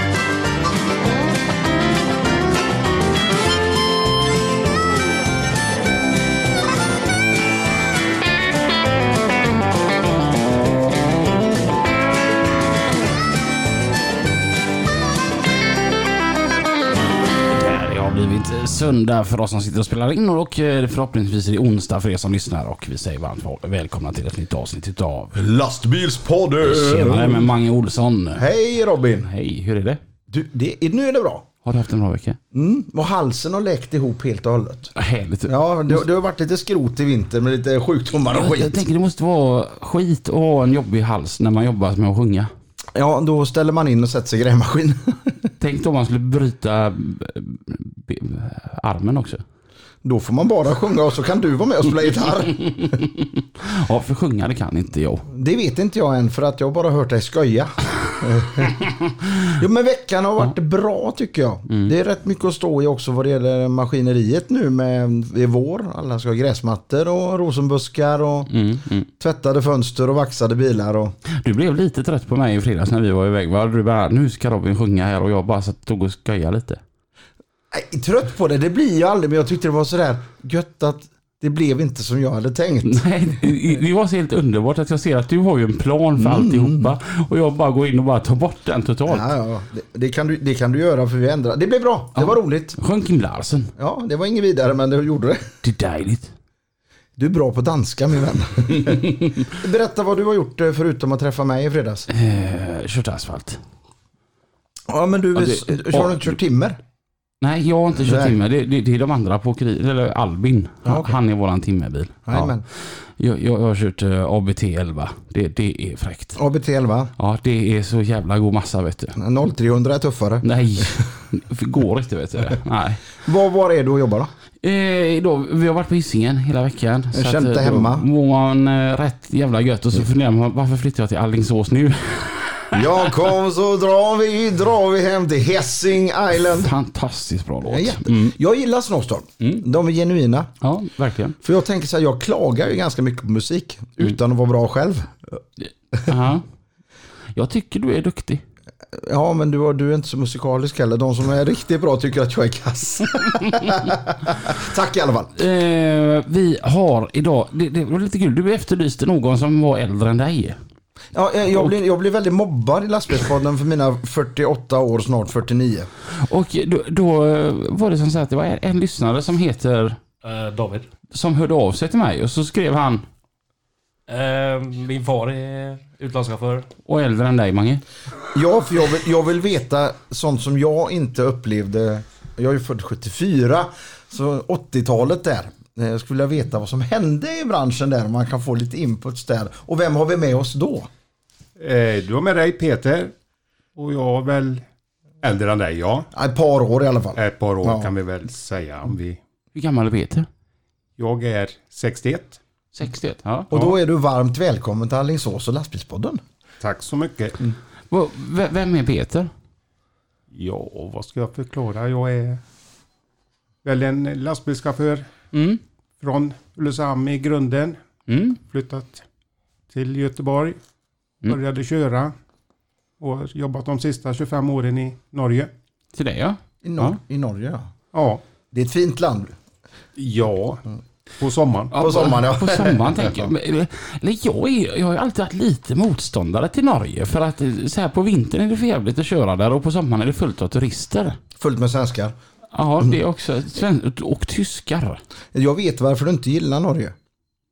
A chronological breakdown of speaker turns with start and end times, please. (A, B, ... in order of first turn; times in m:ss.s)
0:17.5-0:25.4 A
0:25.3-0:27.5 B
0:26.6-0:28.4 A
0:28.4-0:29.3 B
0:29.2-0:30.0 A
0:30.3-0:31.5 B
0:31.6-0:32.4 A
0:32.5-0:34.9 B
0:35.0-0:36.0 A
0:35.5-0:38.8 B
0:38.3-0:42.5 A
0:42.9-0:45.5 B
0:45.6-0:49.4 A
0:50.0-0:52.7 B
0:52.6-0:55.3 A
0:55.3-0:58.7 B
0:59.5-1:08.5 B
1:01.7-1:01.9 A
1:08.5-1:09.1 A
1:09.2-1:11.2 B
1:11.3-1:16.8 A
1:17.7-1:23.5 B
1:22.8-1:29.3 A
1:26.2-1:26.9 B
1:29.1-1:32.8 B
1:32.2-1:33.7 A
1:33.8-1:35.5 B
1:35.6-1:36.3 A
1:37.2-1:42.1 B
1:38.8-1:39.4 A
1:42.1-1:43.6 A
1:44.9-1:46.8 B
1:45.3-1:46.3 A
1:47.4-1:56.4 A
1:48.0-1:48.4 B
1:50.8-1:51.2 B
1:52.3-1:52.6 B
1:56.3-1:57.1 B
1:57.2-1:59.2 A
1:59.2-2:00.5 B
2:00.4-2:03.1 A
2:03.2-2:04.3 B
2:04.6-2:13.0 A
2:07.1-2:08.1 B
2:12.7-2:16.7 B
2:16.4-2:18.4 A
2:17.6-2:20.5 B
2:20.6-2:21.4 A
2:21.4-2:25.4 B
2:26.0-2:26.4 A
2:27.3-2:28.4 A
2:28.9-2:35.3 B
2:35.3-2:40.6 A
2:41.1-2:45.9 B
2:46.2-2:50.0 A
2:50.2-2:50.9 C
2:51.1-2:53.1 A
2:54.1-2:56.7 C
2:56.9-2:57.8 A
2:58.3-3:10.9 B
3:11.6-3:13.1 D
3:13.8-3:14.6 D
3:15.2-3:16.1 D
3:16.1-3:17.9 B
3:17.2-3:19.2 D
3:19.6-3:20.3 A
3:21.0-3:22.4 D
3:22.7-3:23.5 A
3:23.5-3:26.2 B
3:26.6-3:27.4 D
3:27.9-3:29.3 A
3:30.3-3:32.4 D
3:33.6-3:35.1 D
3:35.3-3:35.6 A
3:36.0-3:37.8 D
3:38.1-3:38.4 A
3:38.4-3:39.0 D
3:39.7-3:40.6 D
3:41.2-3:42.1 D
3:43.0-3:45.5 D
3:45.9-3:47.0 A
3:46.6-3:47.7 B
3:47.9-3:48.2 D
3:48.5-3:49.3 B
3:50.0-3:50.6 D
3:51.2-3:51.7 D
3:51.7-4:01.2 A
3:51.7-3:53.3 B
4:01.4-4:02.2 B
4:02.5-4:05.0 A
4:05.3-4:07.0 B